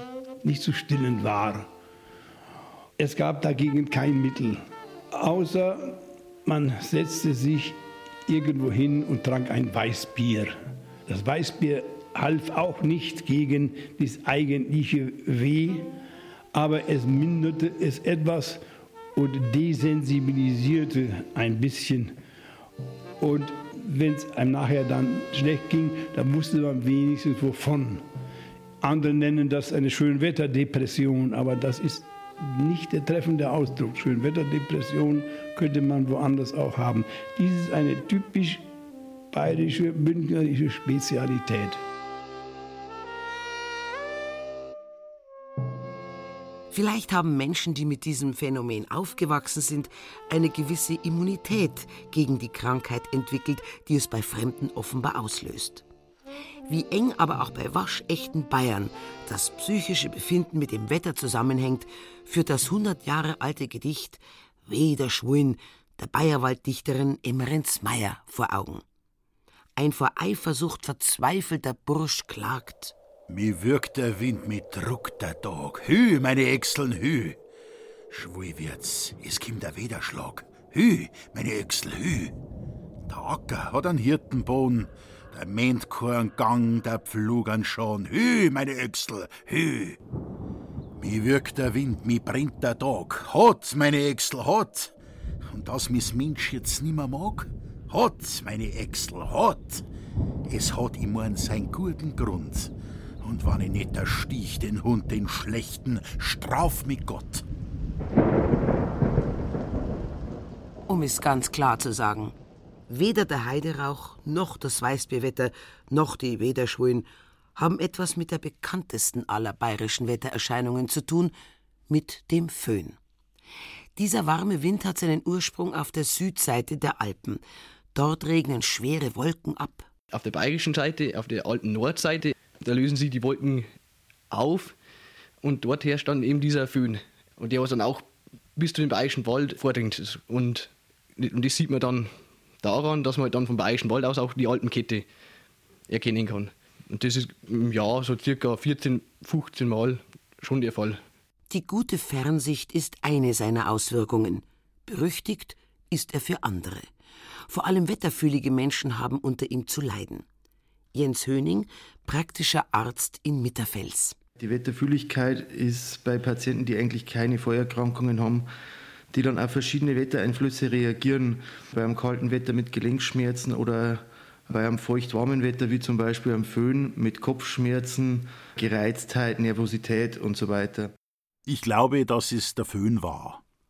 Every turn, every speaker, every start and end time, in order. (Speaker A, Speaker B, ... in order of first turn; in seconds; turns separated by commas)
Speaker A: 0.4-1.7, Speaker A: 3.0-4.6, Speaker A: 5.1-10.5, Speaker A: 11.1-15.9, Speaker A: 16.5-18.6, Speaker A: 19.1-22.1, Speaker A: 23.2-28.0, Speaker A: 28.8-38.6, Speaker A: 39.3-41.8, Speaker B: 46.7-55.9, Speaker B: 56.7-68.8, Speaker B: 69.8-72.9, Speaker C: 73.3-77.4, Speaker C: 78.1-82.3, Speaker C: 83.0-90.0, Speaker C: 91.0-94.9, Speaker C: 95.5-99.9, Speaker C: 100.5-107.4, Speaker B: 110.9-112.3, Speaker B: 112.9-121.3, Speaker B: 121.9-123.0, Speaker B: 124.0-127.4, Speaker B: 127.9-129.9, Speaker D: 130.1-133.7, Speaker D: 134.3-134.7, Speaker D: 135.4-145.0, Speaker D: 145.9-151.0, Speaker B: 151.5-156.9, Speaker B: 157.5-160.2, Speaker B: 160.9-164.2, Speaker E: 164.4-168.5, Speaker E: 169.1-180.9, Speaker C: 181.4-183.4